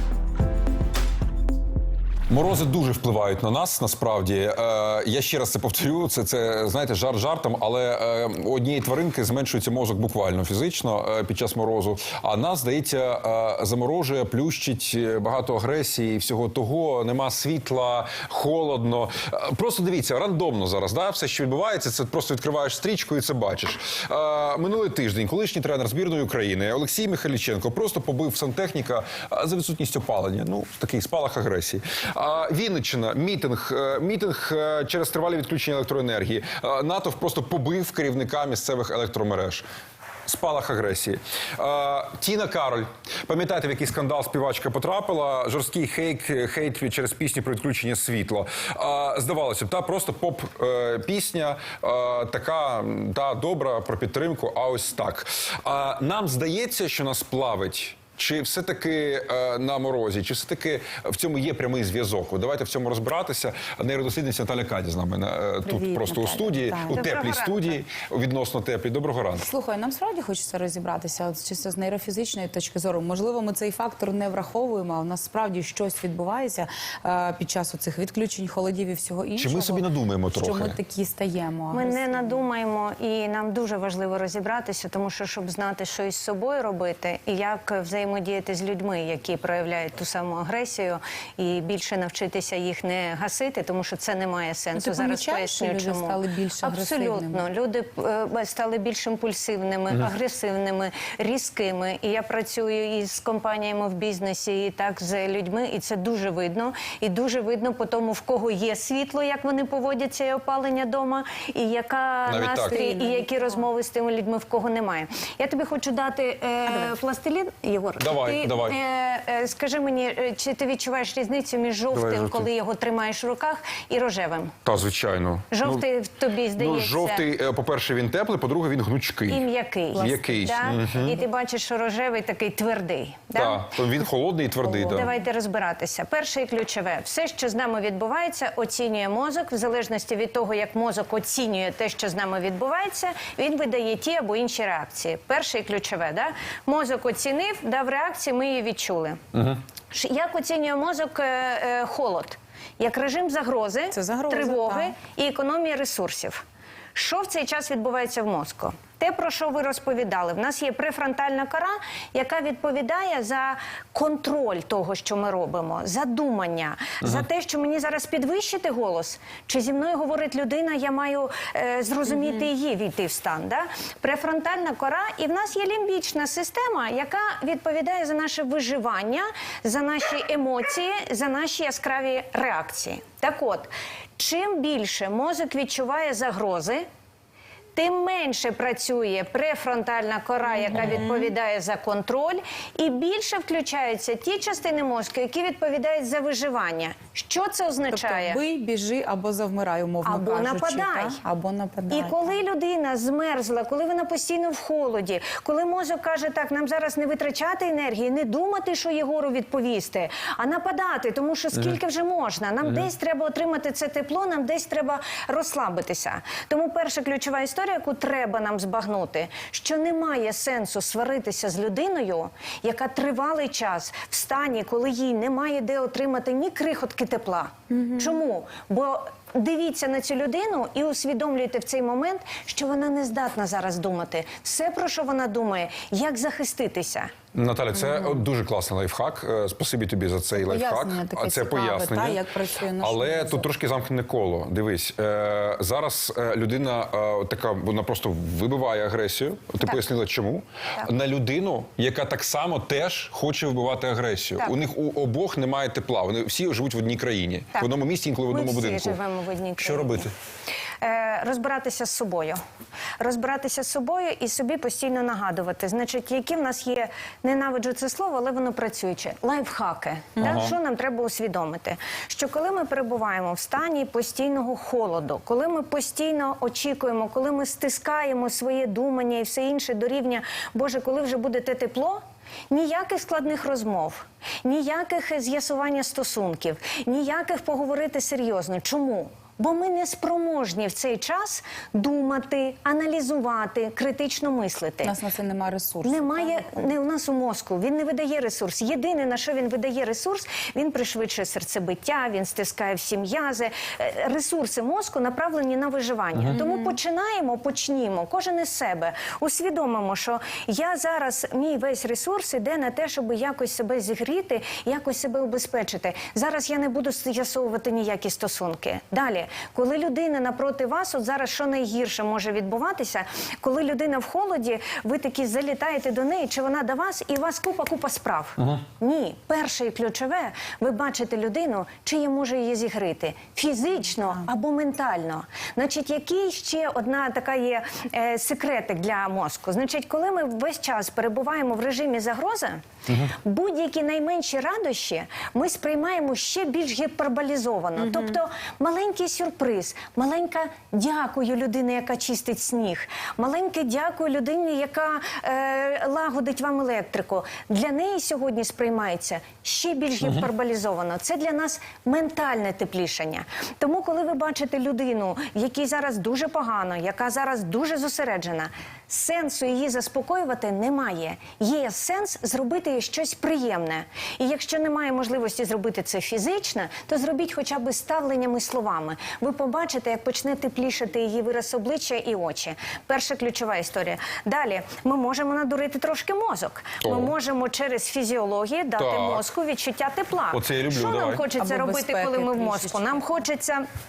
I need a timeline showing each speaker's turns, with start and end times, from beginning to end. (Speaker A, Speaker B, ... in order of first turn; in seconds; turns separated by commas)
Speaker A: 2.3-39.6, Speaker A: 40.3-69.5, Speaker B: 65.7-67.2, Speaker C: 66.9-67.8, Speaker B: 69.4-82.4, Speaker A: 79.4-80.8, Speaker C: 81.7-124.5, Speaker B: 94.8-97.5, Speaker A: 112.3-112.8, Speaker B: 112.6-113.7, Speaker A: 118.0-118.8, Speaker A: 121.9-122.5, Speaker A: 124.7-125.9, Speaker C: 125.5-127.3, Speaker A: 126.5-131.2, Speaker C: 129.3-133.8, Speaker B: 130.1-130.6, Speaker A: 133.3-135.1, Speaker B: 134.6-135.1, Speaker C: 134.8-149.2, Speaker A: 149.3-149.6, Speaker C: 149.9-156.4, Speaker B: 153.9-155.0, Speaker C: 156.9-186.8, Speaker C: 187.8-198.4, Speaker B: 190.7-191.2, Speaker B: 197.9-202.3, Speaker C: 200.1-201.2, Speaker C: 201.9-237.1, Speaker B: 227.8-228.1, Speaker A: 237.3-242.2, Speaker B: 237.9-238.2, Speaker B: 240.3-243.5, Speaker A: 242.8-259.0, Speaker C: 258.3-260.1, Speaker A: 259.6-260.1, Speaker C: 260.8-262.4, Speaker C: 263.0-294.9, Speaker A: 270.2-270.6, Speaker B: 294.8-296.6, Speaker C: 295.8-393.6, Speaker A: 386.8-387.1, Speaker A: 388.8-389.2, Speaker A: 390.3-391.3, Speaker B: 391.4-393.1